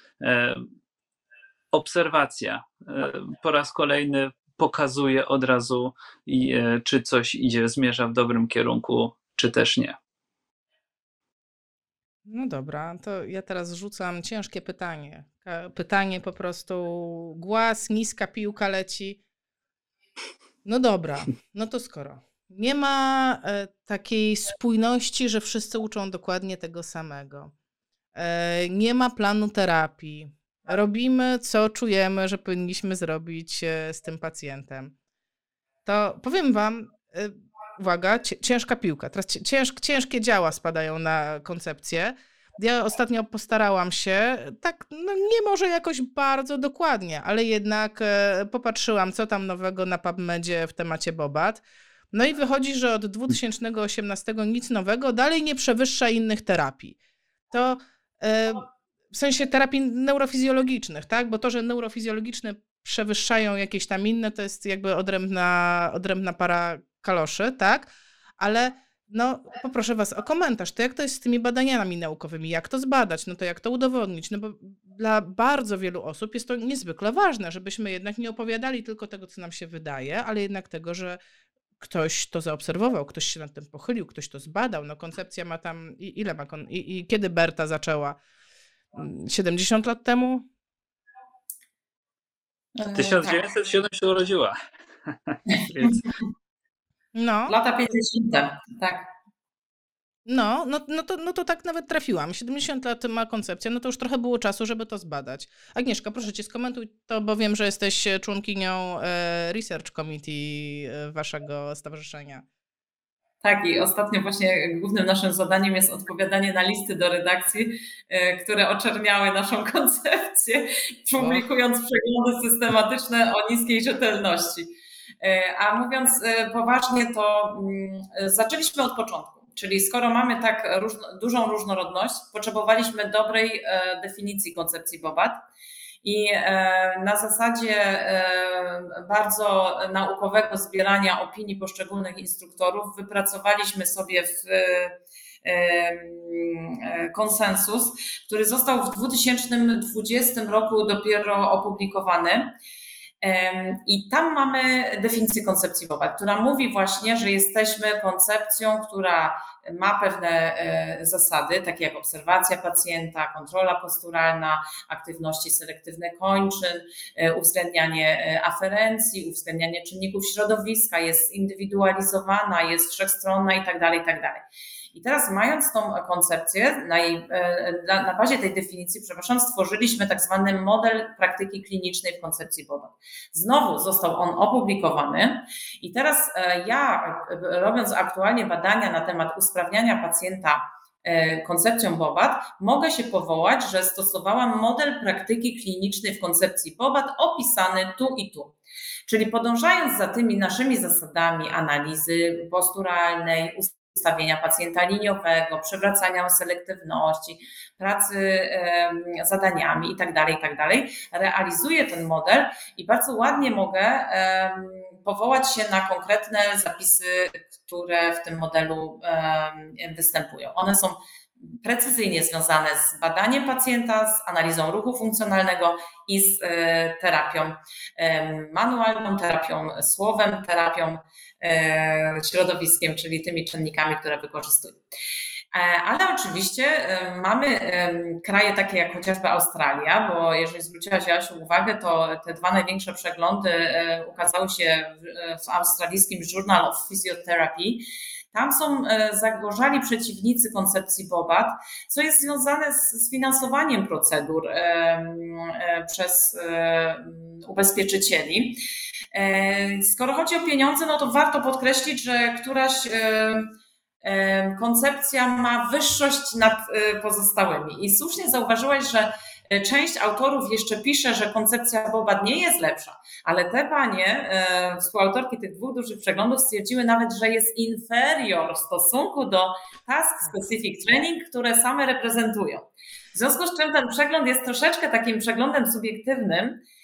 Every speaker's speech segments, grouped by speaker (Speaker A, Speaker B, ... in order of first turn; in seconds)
Speaker A: 0.2-0.7, 1.7-9.9, 92.9-94.5, 95.1-96.0
Speaker B: 12.3-19.2, 20.6-27.5, 28.1-34.9, 35.8-57.0, 57.5-81.2, 81.8-88.2, 88.9-90.5, 97.1-97.6, 100.2-112.4, 121.2-121.5
Speaker C: 92.8-93.5, 95.5-96.0, 97.5-99.1, 113.4-124.7, 125.2-135.4, 136.0-152.5, 153.2-198.6, 199.1-221.0, 221.5-234.8, 235.5-258.6, 259.1-286.6